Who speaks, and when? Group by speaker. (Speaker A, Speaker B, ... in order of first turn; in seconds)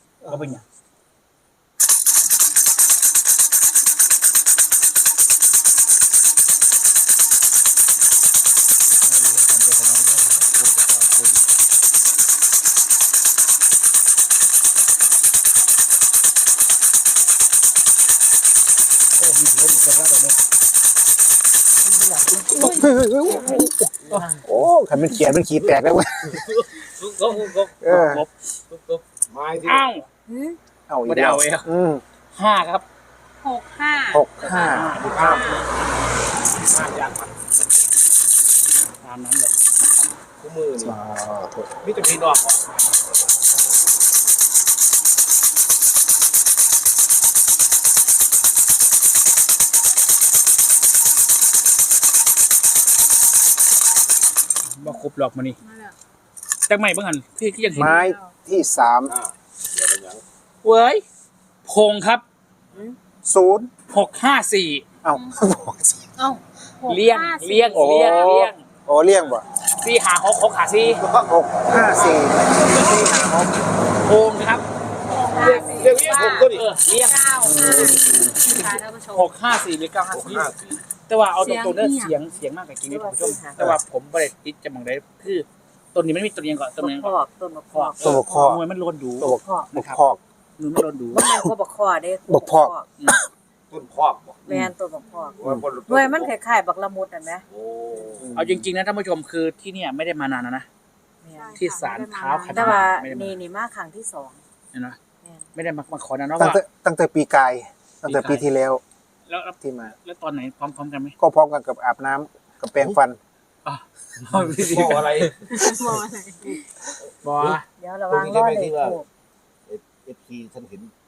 Speaker A: 0.2-0.6, 22.6-26.5, 27.8-28.2, 30.9-32.0, 34.1-35.3, 40.8-41.7, 57.8-59.1, 63.2-63.7, 65.0-66.1, 67.7-69.4, 71.1-73.6, 77.4-78.5, 88.0-88.6, 89.2-90.2, 92.3-93.2, 98.2-98.6, 106.4-108.8, 109.6-109.9, 111.2-113.2
Speaker B: 0.3-0.6, 9.0-11.4, 19.2-20.4, 22.5-22.9, 24.1-24.6, 26.4-29.0, 29.6-30.0, 31.1-31.7, 32.3-32.9, 34.5-35.7, 39.0-40.0, 54.6-55.6, 56.7-58.0, 60.6-61.0, 61.6-62.2, 63.9-64.8, 66.8-68.7, 69.6-71.0, 72.3-73.3, 74.0-74.7, 75.4-77.5, 79.1-80.5, 81.1-87.1, 87.7-90.0, 90.6-91.2, 98.3-100.7, 101.6-103.4, 104.7-105.0, 105.5-106.6, 108.0-108.5, 109.3-111.2, 113.6-115.6, 117.2-117.7
Speaker C: 21.8-24.2, 30.3-30.6, 75.1-76.2, 77.5-78.1, 82.9-83.6, 86.8-88.4, 89.2-89.7, 91.1-92.8, 94.5-97.4, 101.2-101.8, 102.3-104.4, 105.2-105.5, 115.6-116.9, 117.8-119.1
Speaker D: 29.3-30.1, 35.0-35.5, 36.6-37.7, 40.4-41.0, 41.8-43.0, 59.0-60.2, 71.0-72.8, 75.3-76.7, 80.1-80.8, 93.7-94.4, 95.4-96.3, 97.5-98.3, 114.4-115.7, 118.1-119.0, 119.7-120.9
Speaker E: 33.4-35.6, 55.6-56.0, 57.6-58.3, 66.2-68.4, 75.1-79.3, 81.4-82.2, 95.0-95.4, 101.3-103.0, 115.5-116.6